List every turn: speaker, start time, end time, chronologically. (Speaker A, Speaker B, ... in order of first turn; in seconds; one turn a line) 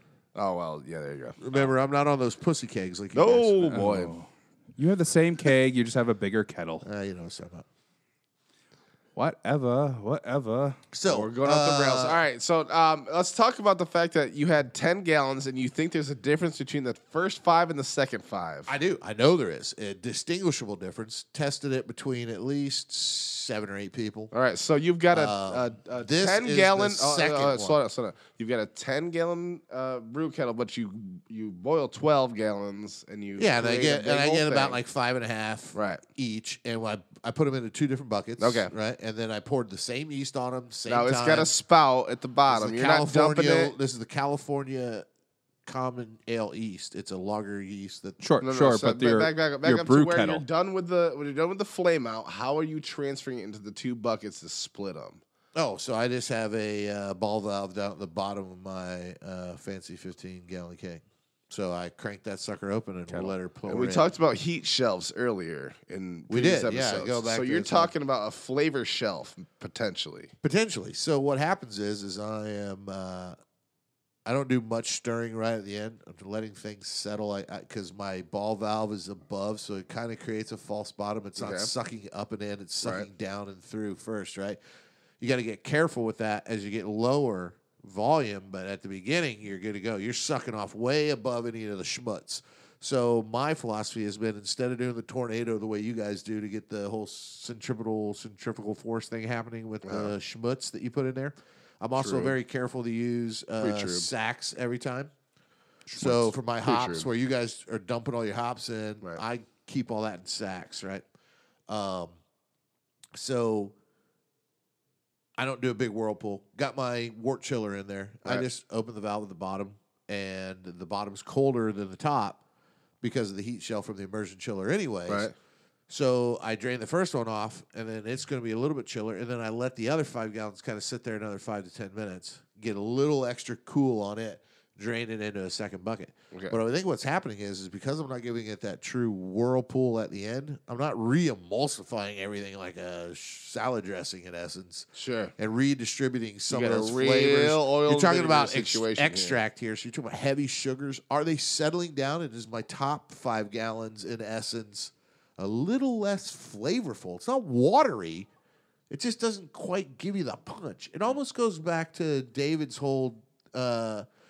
Speaker A: 0.3-1.7
Speaker B: 1.4-3.9
Speaker A: 3.1-4.1
Speaker C: 3.7-6.8
Speaker B: 6.8-7.6
Speaker C: 9.2-10.8
Speaker B: 10.9-12.2
Speaker A: 11.1-18.7
Speaker B: 18.7-24.3
Speaker A: 24.3-34.8
Speaker B: 25.1-27.8
Speaker B: 33.4-41.5
Speaker A: 35.7-36.0
Speaker A: 38.4-38.7
Speaker A: 40.9-43.7
Speaker B: 42.5-45.0
Speaker B: 45.6-48.2
Speaker C: 48.2-50.4
Speaker A: 48.4-55.2
Speaker B: 55.5-64.1
Speaker A: 63.1-70.3
Speaker B: 66.3-67.9
Speaker B: 70.4-73.3
Speaker B: 74.2-84.6
Speaker A: 81.4-81.7
Speaker A: 82.8-83.1
Speaker B: 85.2-105.1
Speaker A: 99.8-100.1
Speaker A: 102.0-102.3
Speaker A: 103.6-104.1
Speaker B: 105.9-111.0
Speaker A: 106.0-107.1
Speaker B: 111.7-112.2
Speaker B: 113.1-113.7
Speaker B: 115.4-122.4
Speaker B: 123.0-125.3
Speaker A: 125.1-125.3
Speaker B: 125.9-144.9
Speaker A: 144.9-145.3
Speaker B: 145.4-158.3
Speaker A: 146.5-149.4
Speaker B: 158.9-164.0